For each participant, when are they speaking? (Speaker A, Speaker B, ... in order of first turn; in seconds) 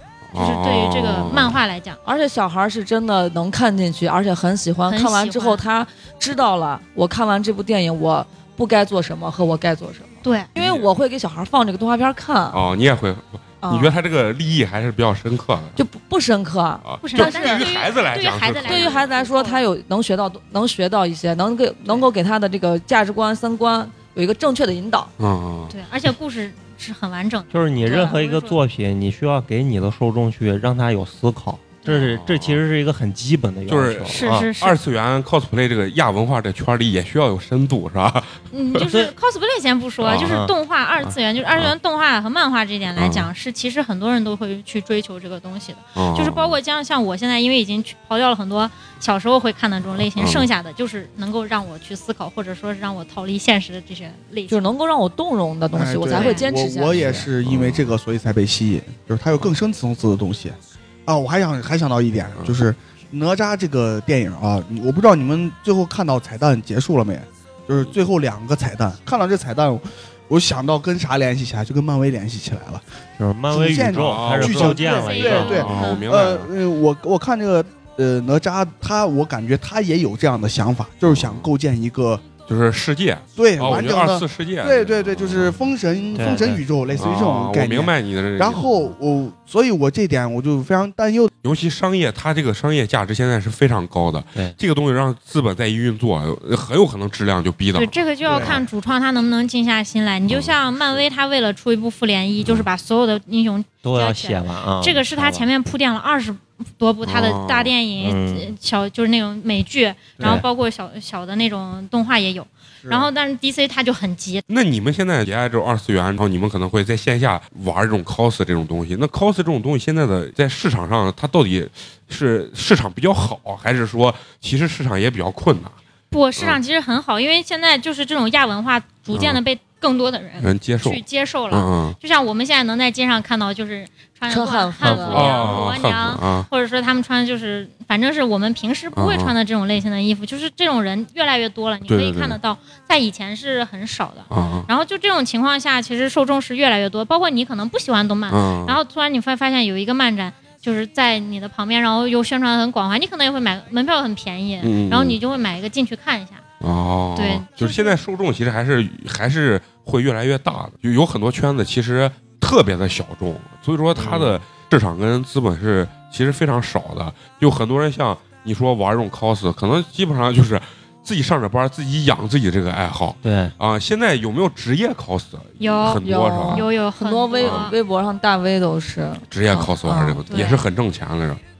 Speaker A: 0.3-1.6, 10.6-10.9, 12.5-15.8, 16.9-19.1, 25.2-25.8, 32.0-32.6, 33.7-38.8, 40.0-40.3, 41.0-41.7, 43.0-43.3, 46.0-46.6, 50.1-50.5, 57.0-57.9, 73.8-76.5, 81.0-81.5, 82.5-85.7, 87.0-88.9, 91.4-98.6, 100.3-101.0, 107.0-107.7, 114.5-125.8, 129.1-129.4, 130.4-132.0, 135.1-136.5, 138.9-139.3, 141.9-142.4, 144.3-144.7, 148.3-148.8, 154.6-155.2, 156.6-176.7, 177.4-177.7, 179.3-181.4
Speaker B: 0.3-2.0, 4.9-5.7, 10.2-10.5, 17.0-19.6, 25.7-28.6, 31.8-32.1, 34.1-34.8, 38.5-54.7, 56.1-56.5, 74.7-76.0, 97.8-114.4, 126.1-156.4, 157.2-158.0, 175.6-177.8, 180.3-180.6
Speaker C: 2.0-12.6, 13.6-14.0, 15.8-17.7, 18.6-25.1, 27.9-28.1, 54.5-57.3, 134.3-135.6, 176.0-180.5
Speaker D: 27.5-34.5, 38.9-39.1, 40.1-40.5, 73.2-75.9, 86.2-86.6, 103.8-105.5, 108.0-108.5, 110.2-110.5, 134.8-135.2, 164.0-164.4, 173.2-173.6
Speaker E: 55.7-72.8, 73.5-82.2, 83.4-91.3, 98.3-98.6, 112.8-113.1